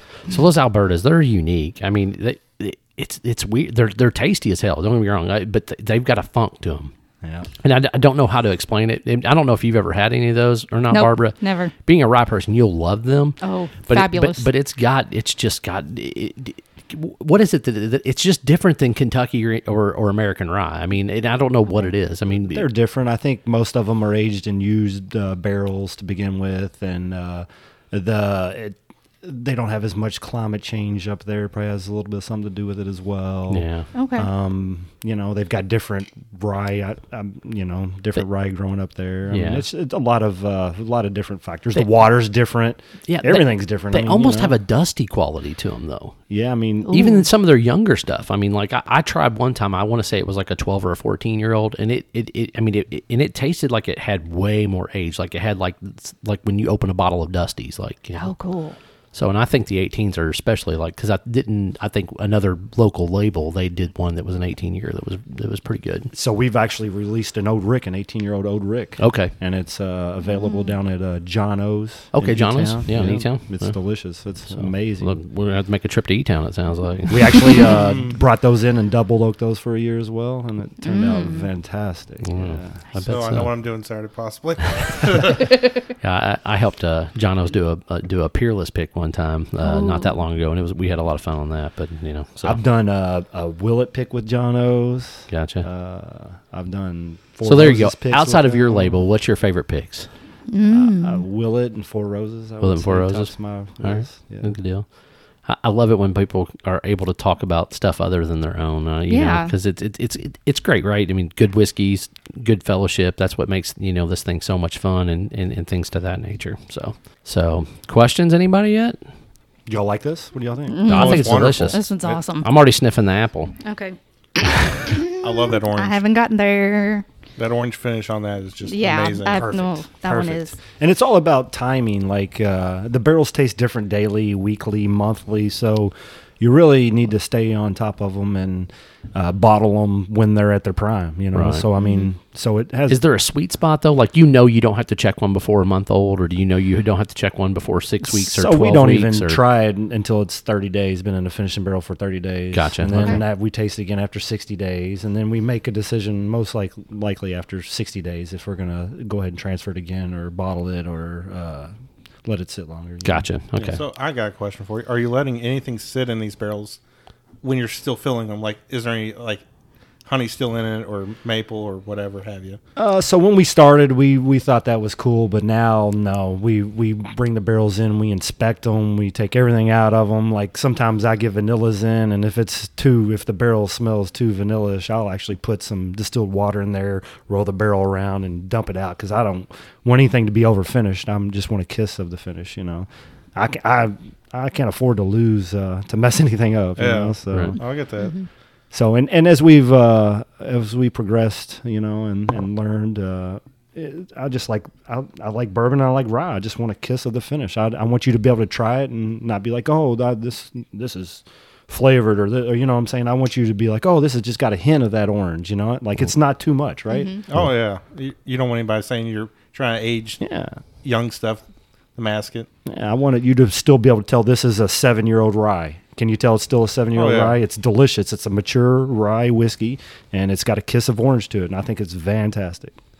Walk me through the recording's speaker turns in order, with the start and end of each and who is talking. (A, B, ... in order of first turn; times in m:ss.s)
0:00.3-0:06.9 A
0:07.2-0:07.5 B
0:07.6-0:22.7 A
0:10.9-0:11.7 C
0:13.4-0:14.5 C
0:22.5-0:44.5 B
0:33.5-0:33.9 A
0:34.0-0:34.3 C
0:39.3-0:39.6 A
0:43.1-0:46.2 A
0:46.3-0:47.0 B
0:46.9-0:47.2 C
0:46.9-0:58.3 A
0:58.2-0:58.8 C
0:59.1-1:06.1 A
1:06.1-1:15.2 B
1:09.0-1:09.3 A
1:10.4-1:10.7 C
1:12.1-1:13.8 A
1:14.5-1:17.6 A
1:17.1-1:22.8 B
1:17.9-1:18.1 D
1:20.8-1:21.5 C
1:22.2-1:23.5 A
1:23.0-1:25.5 D
1:26.0-1:32.6 A
1:29.6-1:30.1 C
1:32.4-1:39.0 B
1:35.3-1:35.7 A
1:37.4-1:40.1 A
1:40.5-1:41.2 C
1:40.7-1:44.5 B
1:42.6-1:44.9 A
1:45.4-1:59.0 A
1:49.1-1:49.5 C
1:59.7-2:01.5 B
2:00.7-2:02.5 C
2:00.8-2:01.9 A
2:00.9-2:02.2 D
2:02.4-2:03.5 A
2:03.6-2:07.1 C
2:05.1-2:06.0 D
2:07.4-2:09.5 D
2:08.7-2:10.6 C
2:09.3-2:23.0 B
2:21.3-2:21.7 A
2:21.8-2:22.1 C
2:22.9-2:29.4 A
2:28.0-2:41.7 B
2:32.5-2:33.2 A
2:33.0-2:33.2 C
2:42.2-2:43.8 B
2:43.0-2:43.8 A
2:43.7-2:46.8 D
2:47.4-2:49.4 D
2:50.0-2:52.6 D
2:52.8-3:17.6 B
3:16.8-3:18.1 D
3:17.3-3:17.6 A
3:18.0-3:18.2 C
3:18.7-3:37.5 B
3:36.9-3:37.2 C
3:37.3-3:40.2 D
3:40.2-3:40.6 B
3:40.8-3:41.4 D
3:42.0-3:42.5 D
3:42.7-3:52.8 B
3:46.9-3:47.4 D